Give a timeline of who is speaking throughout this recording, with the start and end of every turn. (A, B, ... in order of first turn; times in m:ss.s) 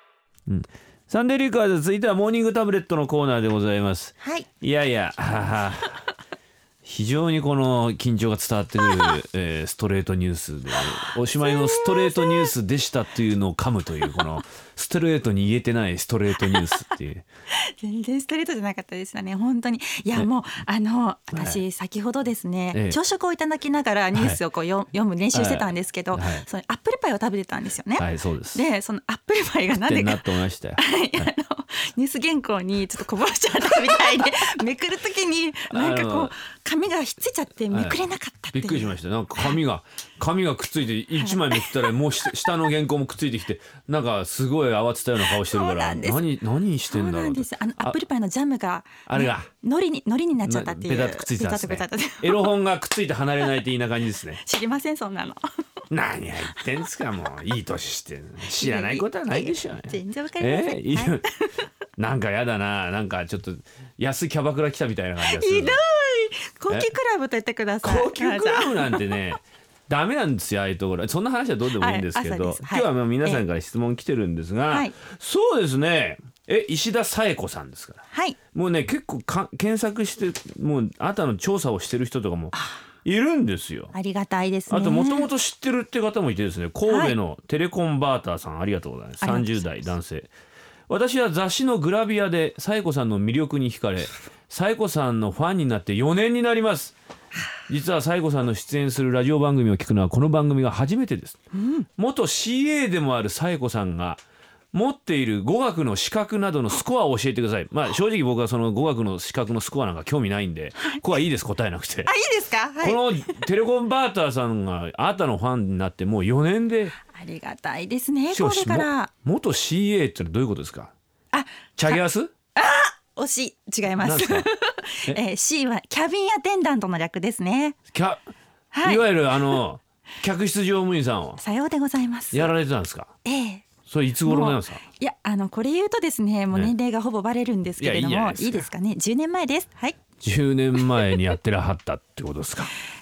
0:00.5-0:06.0 A
0:04.2-0:04.5 B
0:06.8-0:17.2 A
0:11.4-0:12.5 B
0:14.0-0:14.2 B
0:16.4-0:16.8 B
0:17.5-0:39.6 B
0:21.3-0:21.6 A
0:22.7-0:23.0 A
0:24.1-0:24.4 A
0:25.3-0:26.4 A
0:28.0-0:28.6 A
0:29.8-0:31.2 A
0:35.7-0:36.3 A
0:37.7-0:38.0 A
0:38.5-0:48.0 A
0:41.2-0:41.9 B
0:45.2-0:46.3 B
0:46.9-0:52.5 B
0:49.0-0:49.5 A
0:50.4-0:54.4 A
0:54.4-0:55.4 B
0:55.9-1:01.2 A
0:58.5-1:01.7 B
1:02.0-1:05.8 A
1:05.2-1:09.2 B
1:07.8-1:23.9 A
1:11.8-1:13.4 B
1:18.1-1:18.4 B
1:22.5-1:22.8 B
1:23.9-1:25.3 B
1:24.7-1:30.3 A
1:26.8-1:27.2 B
1:29.2-1:29.8 B
1:30.9-1:36.9 A
1:37.7-1:41.4 A
1:41.5-1:41.8 B
1:42.0-1:44.2 A
1:44.7-1:52.1 A
1:50.8-1:51.0 B
1:52.0-1:53.3 B
1:52.8-1:57.0 A
1:57.1-1:59.1 B
1:58.3-2:00.9 A
2:01.3-2:02.0 B
2:01.8-2:02.3 A
2:02.6-2:07.8 B
2:04.0-2:04.5 A
2:07.9-2:08.2 A
2:08.7-2:09.6 B
2:08.8-2:11.4 A
2:11.4-2:12.5 B
2:12.3-2:13.1 A
2:13.2-2:13.7 B
2:13.8-2:14.8 A
2:14.2-2:20.0 B
2:17.8-2:18.7 A
2:20.2-2:22.7 A